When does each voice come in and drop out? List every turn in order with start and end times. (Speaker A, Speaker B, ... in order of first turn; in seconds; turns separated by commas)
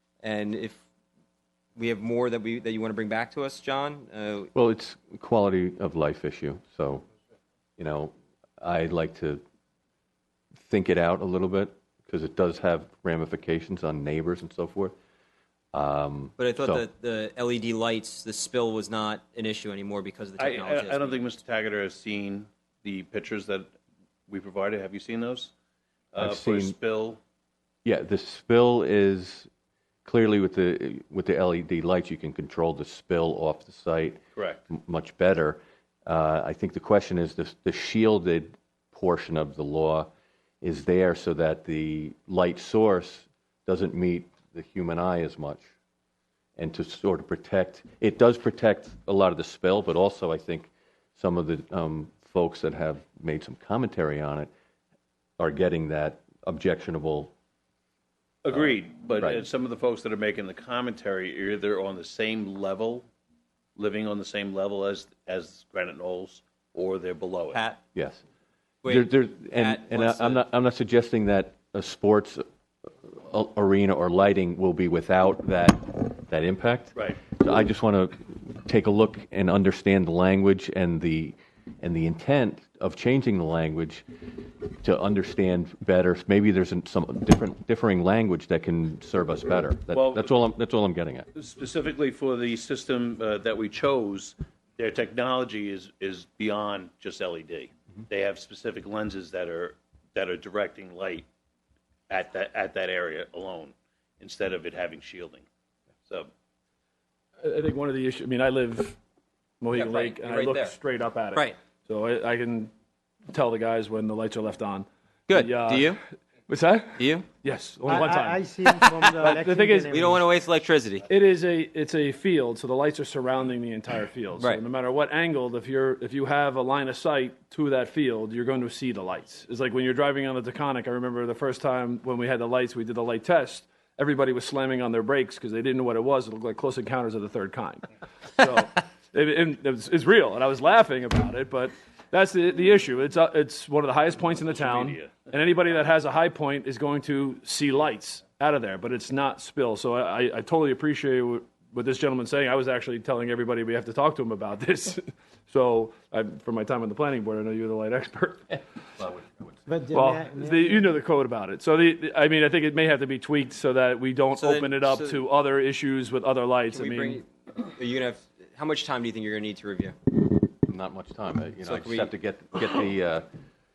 Speaker A: 0.2-0.8, Speaker A: 1.8-4.5, Speaker B: 4.5-7.0, Speaker B: 7.8-9.4, Speaker B: 10.5-14.9, Speaker B: 15.7-16.9, Speaker A: 16.4-21.2, Speaker C: 20.4-23.7, Speaker C: 24.3-25.5, Speaker C: 26.1-27.2, Speaker B: 26.2-26.8, Speaker B: 27.8-29.5, Speaker B: 30.0-40.1, Speaker C: 34.3-34.6, Speaker B: 40.6-45.6, Speaker B: 46.6-54.5, Speaker B: 55.4-57.3, Speaker C: 58.4-63.1, Speaker C: 63.8-67.6, Speaker A: 67.5-67.8, Speaker B: 67.9-68.2, Speaker A: 68.8-70.5, Speaker B: 68.8-91.3, Speaker C: 89.9-90.3, Speaker C: 91.3-101.3, Speaker C: 102.1-105.5, Speaker D: 107.4-109.0, Speaker D: 109.6-112.7, Speaker A: 109.7-110.8, Speaker D: 113.3-120.2, Speaker A: 115.3-116.0, Speaker A: 117.0-117.3, Speaker E: 117.9-120.2, Speaker A: 119.9-121.1, Speaker D: 121.1-158.5, Speaker C: 144.2-145.3, Speaker B: 158.5-159.7, Speaker E: 159.7-160.9, Speaker D: 159.9-167.2, Speaker A: 164.3-165.2, Speaker A: 166.7-170.0, Speaker B: 170.6-173.3, Speaker A: 171.6-172.1